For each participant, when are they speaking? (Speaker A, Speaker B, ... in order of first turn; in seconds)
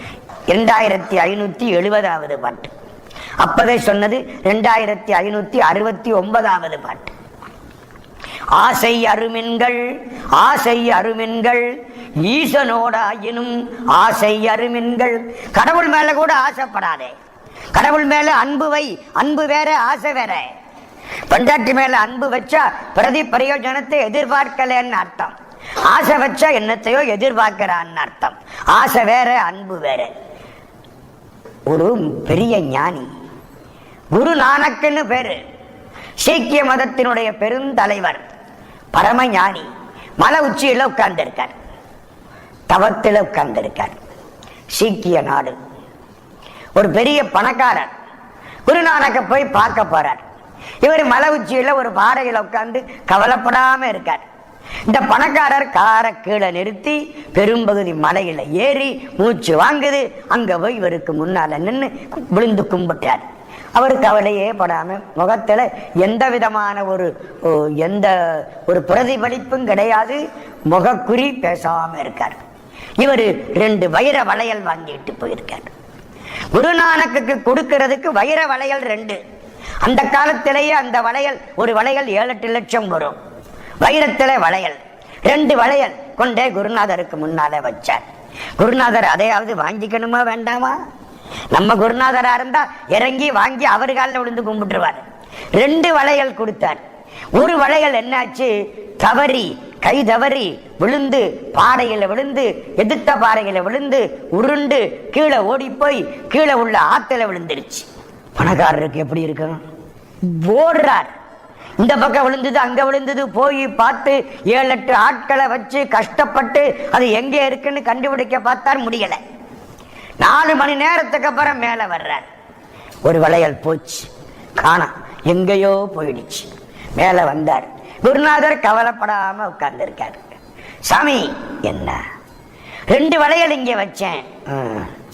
Speaker A: 0.5-2.7, 3.4-7.1, 8.6-9.8, 10.3-11.7, 12.2-17.1, 17.7-20.5, 21.3-30.1, 31.7-33.1, 34.1-35.4, 36.2-38.2, 38.9-39.6, 40.2-41.5, 42.7-44.0, 44.7-45.5, 46.8-47.9, 48.6-50.2, 50.8-54.2, 54.9-72.4, 73.0-75.7, 76.5-79.2, 79.8-83.2, 83.8-88.0, 88.6-90.8, 91.5-95.0, 95.5-96.8, 97.3-109.6, 110.2-111.1, 111.8-119.2, 120.2-122.2, 123.0-130.2, 130.9-132.0, 132.9-134.9